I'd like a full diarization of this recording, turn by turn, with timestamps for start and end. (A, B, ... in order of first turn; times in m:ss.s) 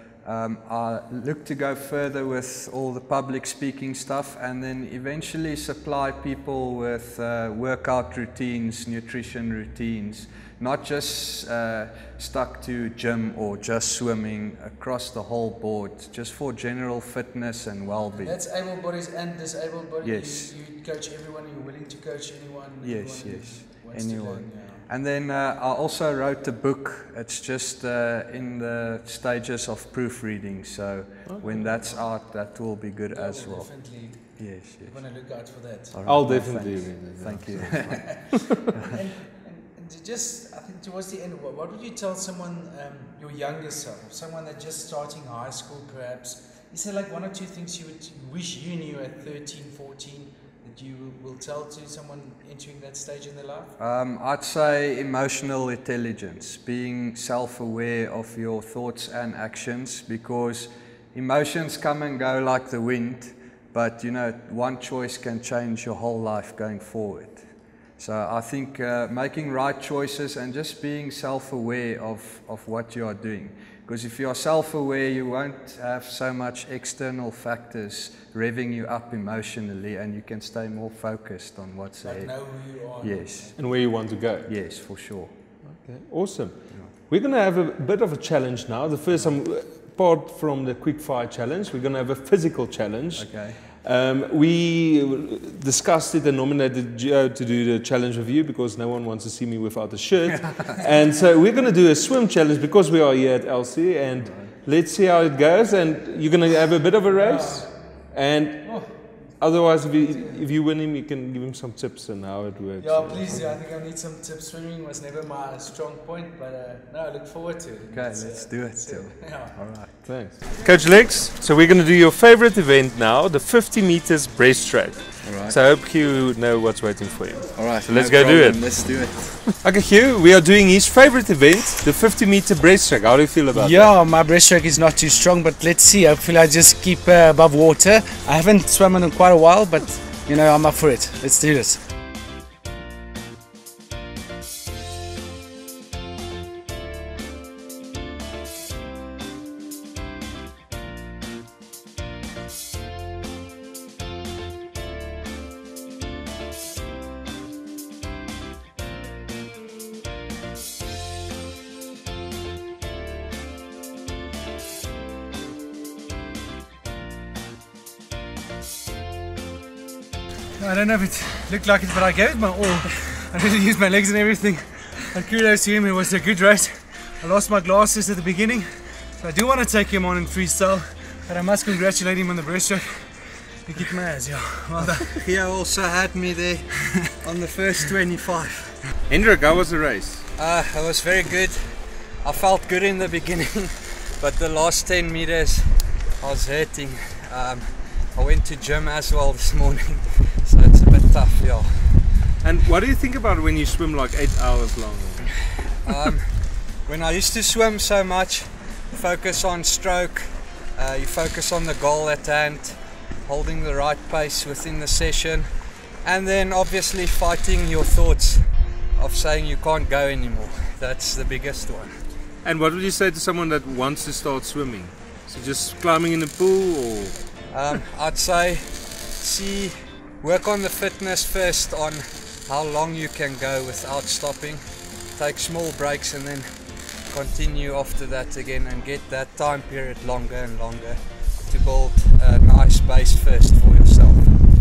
0:00.2-0:18.4 A
0:18.1-0:24.8 B
0:20.0-0:20.5 A
0:22.8-0:33.7 A
0:31.2-0:31.5 C
0:31.6-0:32.0 B
0:33.1-0:36.0 B
0:34.2-0:35.0 A
0:35.9-0:38.2 A
0:36.0-0:38.4 C
0:37.8-0:53.8 B
0:53.8-1:07.4 A
1:08.0-1:22.4 A
1:22.0-1:23.5 B
1:23.0-1:23.6 A
1:23.6-1:24.5 C
1:24.4-1:25.3 A
1:25.8-1:53.4 C
1:33.1-1:33.6 A
1:44.2-1:44.5 A
1:47.1-1:47.7 B
1:48.6-1:48.9 B
1:52.8-1:59.6 B
1:57.9-2:00.1 A
2:00.0-2:08.8 C
2:05.2-2:05.6 A
2:07.6-2:09.5 A
2:09.6-2:13.9 C
2:13.5-2:21.8 B
2:50.6-3:05.2 B
3:04.8-3:08.8 A
3:09.1-3:10.2 C
3:10.4-3:22.2 A
3:22.4-3:25.4 C
3:25.8-3:35.5 A
3:36.0-3:42.0 A
3:42.4-3:47.2 C
3:47.5-4:04.4 A